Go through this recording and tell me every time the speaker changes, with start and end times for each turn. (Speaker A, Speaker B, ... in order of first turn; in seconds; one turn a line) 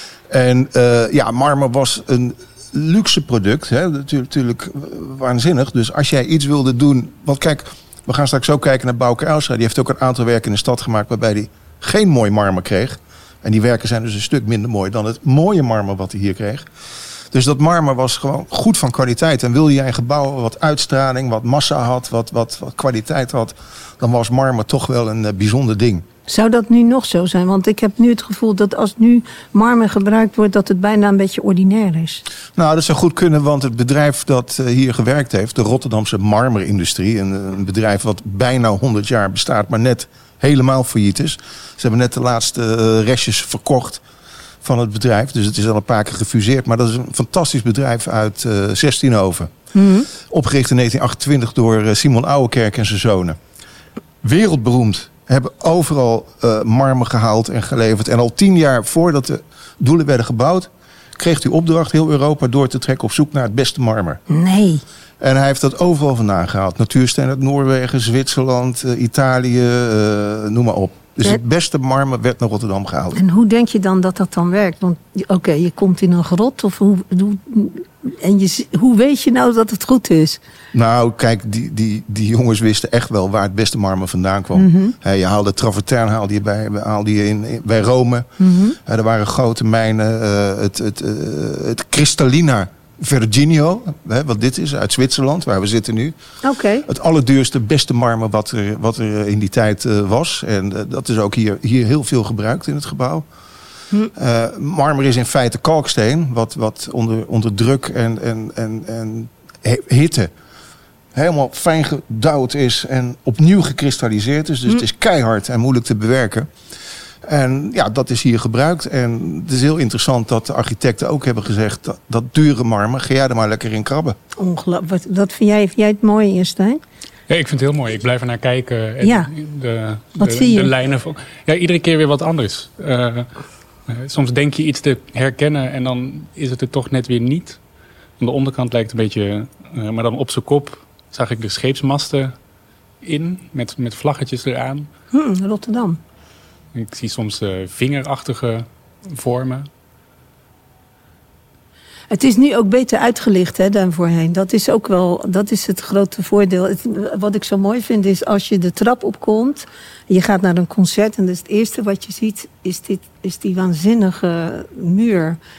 Speaker A: 0.3-16.7
Speaker A: 17.3-26.0
Speaker B: 26.3-32.2
Speaker A: 32.5-44.0
Speaker A: 44.6-49.5
Speaker B: 49.7-50.1
Speaker A: 50.1-53.4
Speaker A: 54.2-64.2
Speaker B: 64.3-64.8
Speaker A: 65.2-73.2
Speaker B: 73.1-80.4
Speaker A: 80.7-88.3
Speaker B: 84.5-84.9
Speaker B: 88.4-88.8
Speaker A: 88.8-96.1
Speaker B: 96.4-96.9
Speaker A: 96.8-103.2
Speaker A: 104.1-110.3
Speaker A: 111.1-116.5
Speaker A: 117.2-124.2
Speaker B: 124.4-126.8
Speaker C: 127.3-133.3
Speaker B: 129.0-129.3
Speaker B: 130.2-130.7
Speaker C: 133.9-137.6
Speaker C: 138.2-142.3
Speaker C: 143.0-144.9
Speaker B: 145.1-146.0
Speaker C: 146.7-149.7
Speaker B: 152.1-165.4